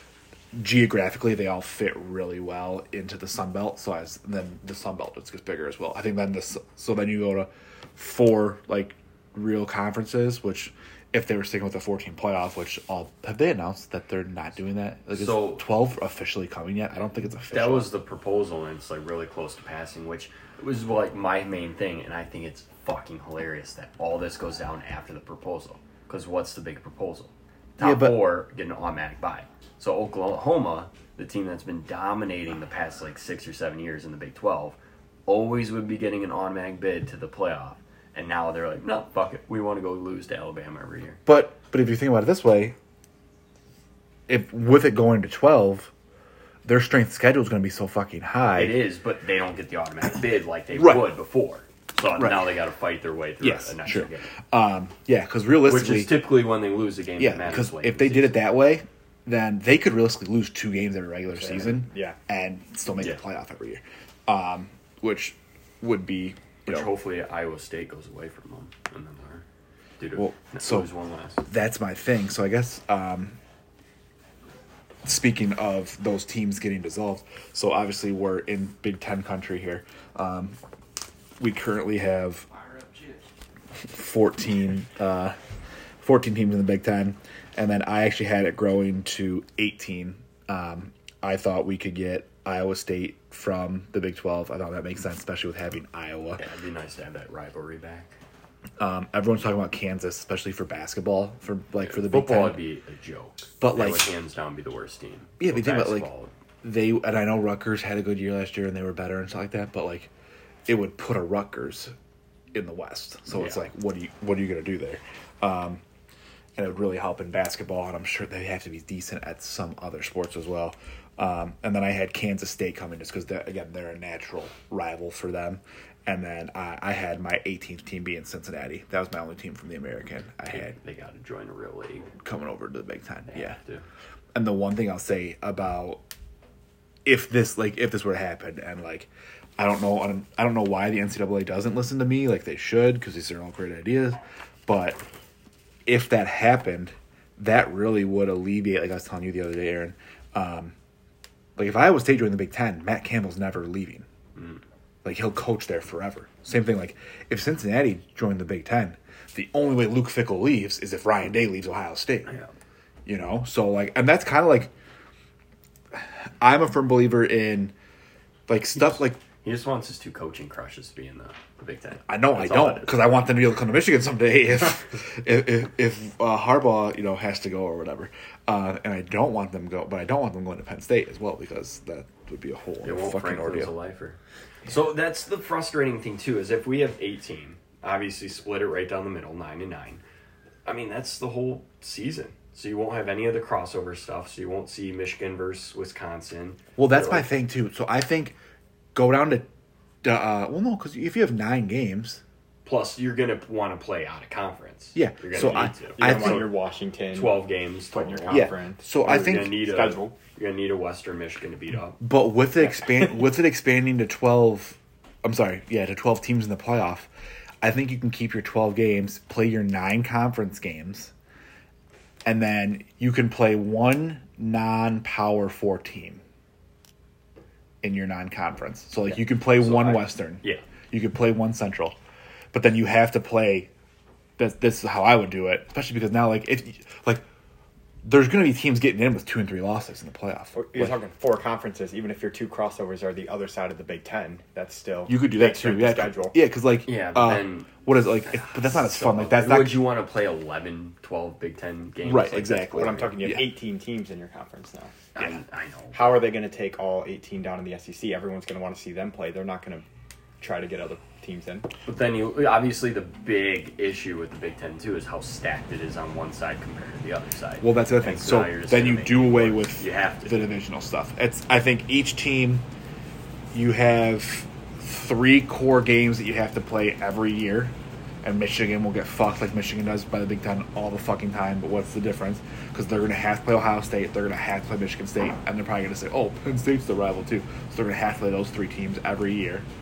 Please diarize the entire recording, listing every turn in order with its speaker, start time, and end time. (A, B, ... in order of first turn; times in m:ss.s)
0:00.5-0:17.9 A
0:15.1-0:15.7 B
0:17.5-0:41.2 B
0:27.8-0:28.2 A
0:41.3-0:42.8 A
0:44.3-0:45.9 A
0:46.7-0:48.8 A
0:48.6-0:54.3 B
0:50.8-0:51.1 A
0:52.2-0:52.5 A
0:53.4-0:56.2 A
0:55.6-0:58.4 B
0:57.2-1:06.9 A
1:01.3-1:02.2 C
1:06.7-1:09.4 B
1:10.0-1:11.5 B
1:10.2-1:10.9 A
1:11.5-1:13.4 A
1:15.0-1:20.6 A
1:21.4-1:22.5 A
1:23.8-1:25.4 A
1:26.0-1:36.4 A
1:36.4-1:38.2 B
1:38.8-1:42.6 A
1:41.8-1:46.3 B
1:43.6-1:44.1 A
1:45.4-1:46.1 A
1:46.6-1:50.1 A
1:50.7-1:51.9 A
1:52.5-1:55.8 A
1:53.3-1:53.7 B
1:56.6-2:10.8 A
2:10.5-2:12.1 B
2:12.2-2:13.6 A
2:13.3-2:13.9 B
2:14.3-2:16.0 A
2:17.0-2:25.0 A
2:25.9-2:30.7 A
2:31.6-2:34.1 A
2:34.4-2:34.6 B
2:35.0-2:42.4 A
2:43.1-2:44.7 A
2:45.9-2:47.7 A
2:48.5-2:49.2 A
2:49.4-2:53.2 B
2:52.1-3:03.7 A
3:02.8-3:10.0 B
3:10.6-3:17.3 B
3:16.8-3:18.4 A
3:19.0-3:19.5 A
3:20.0-3:22.2 A
3:22.6-3:26.5 B
3:25.0-3:26.5 A
3:25.8-3:30.2 C
3:27.1-3:28.5 B
3:28.3-3:29.6 A
3:29.0-3:32.0 B
3:32.0-3:37.1 A
3:37.6-3:41.1 A
3:42.2-3:46.2 A
3:47.8-3:52.0 A
3:49.5-3:50.6 B
3:52.5-3:53.7 A
3:54.4-3:57.2 A
3:58.0-4:01.0 A
4:00.5-4:06.4 C
4:05.1-4:09.9 A
4:06.9-4:07.7 B
4:08.3-4:13.1 B
4:12.0-4:13.5 A
4:12.7-4:14.9 C
4:15.2-4:16.2 B
4:15.9-4:19.8 C
4:20.4-4:21.7 C
4:21.9-4:30.5 B
4:27.6-4:32.7 A
4:33.5-4:49.7 A